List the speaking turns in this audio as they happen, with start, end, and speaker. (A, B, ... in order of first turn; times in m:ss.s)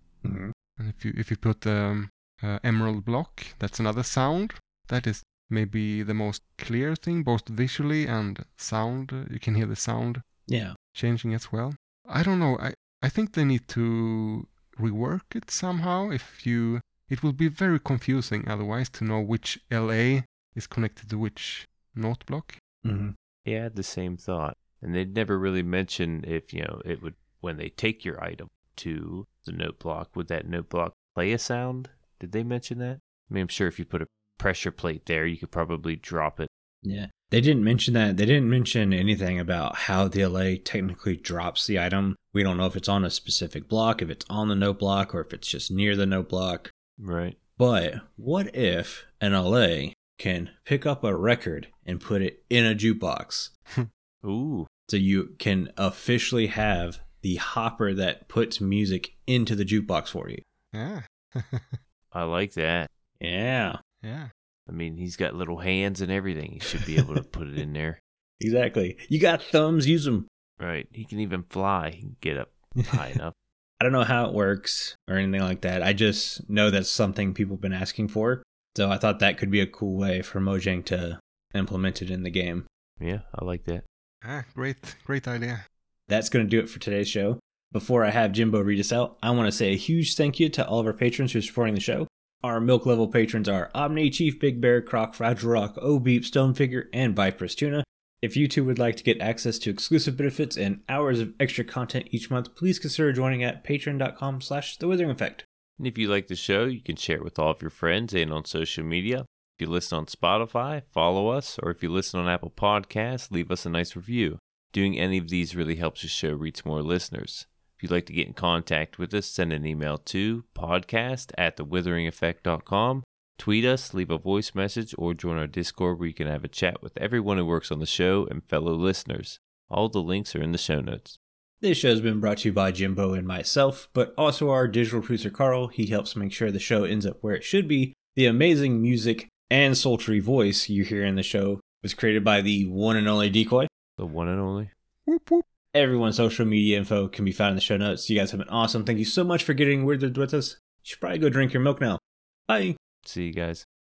0:00.2-0:00.5 A
0:00.8-0:10.2 B
0:10.5-0:10.7 A
0:10.9-0:22.6 B
0:22.8-0:23.1 A
0:23.4-0:36.5 C
0:36.8-0:46.7 A
0:47.0-0:47.4 C
0:47.6-0:53.5 A
0:54.2-0:54.7 C
0:54.9-1:00.4 A
1:00.7-1:01.8 B
1:02.1-1:02.9 C
1:03.2-1:03.8 A
1:04.0-1:04.3 B
1:04.7-1:08.0 C
1:06.6-1:07.2 A
1:08.4-1:10.3 A
1:10.6-1:13.3 C
1:13.8-1:22.6 A
1:23.0-1:23.8 C
1:24.2-1:25.6 B
1:26.1-1:45.4 A
1:45.8-2:11.2 C
2:11.6-2:23.7 A
2:24.0-2:24.7 C
2:25.1-2:25.4 B
2:25.7-2:32.8 A
2:33.0-2:33.6 C